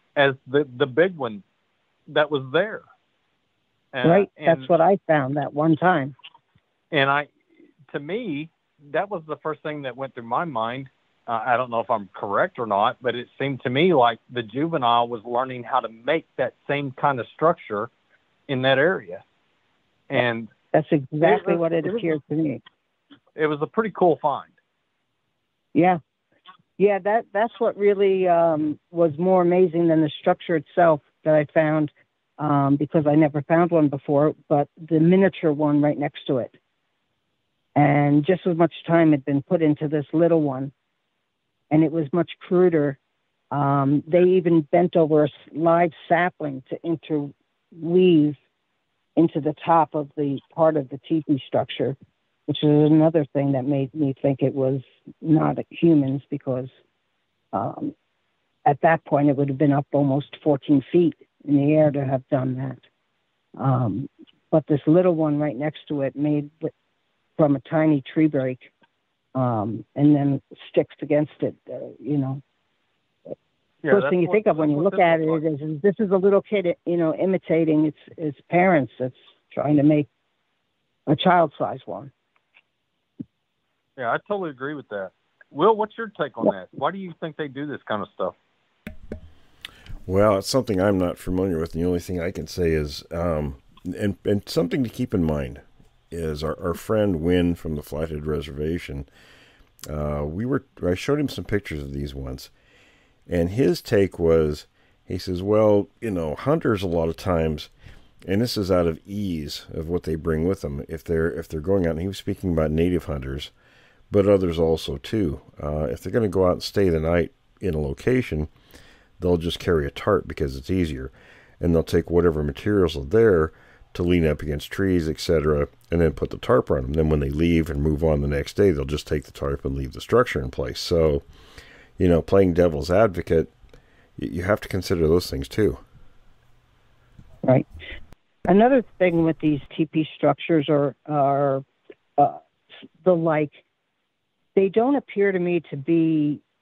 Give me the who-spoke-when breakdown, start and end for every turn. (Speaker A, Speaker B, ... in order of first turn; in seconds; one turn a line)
Speaker A: 0.2-1.4
Speaker A: 2.1-2.8
Speaker A: 3.9-4.7
Speaker B: 4.0-6.1
Speaker A: 6.9-7.3
Speaker A: 7.9-17.9
Speaker A: 18.5-19.2
Speaker A: 20.1-20.5
Speaker B: 20.7-22.6
Speaker A: 21.2-22.1
Speaker A: 23.4-24.6
Speaker B: 25.8-26.0
Speaker B: 26.8-36.5
Speaker B: 37.8-40.7
Speaker B: 41.7-43.0
Speaker B: 43.5-48.4
Speaker B: 49.2-52.0
Speaker B: 52.5-56.7
Speaker B: 57.5-57.9
Speaker B: 58.6-62.8
Speaker B: 63.6-66.7
Speaker B: 67.4-68.7
Speaker B: 69.3-72.4
Speaker A: 73.8-75.4
Speaker B: 73.9-80.1
Speaker B: 81.1-82.1
Speaker A: 84.0-88.3
Speaker C: 90.1-99.1
Speaker C: 99.9-102.5
Speaker C: 103.3-107.7
Speaker C: 108.2-113.5
Speaker C: 114.1-118.5
Speaker C: 119.2-131.2
Speaker C: 132.0-133.5
Speaker C: 134.2-135.8
Speaker B: 138.5-141.6
Speaker B: 143.0-143.6
Speaker B: 144.6-146.4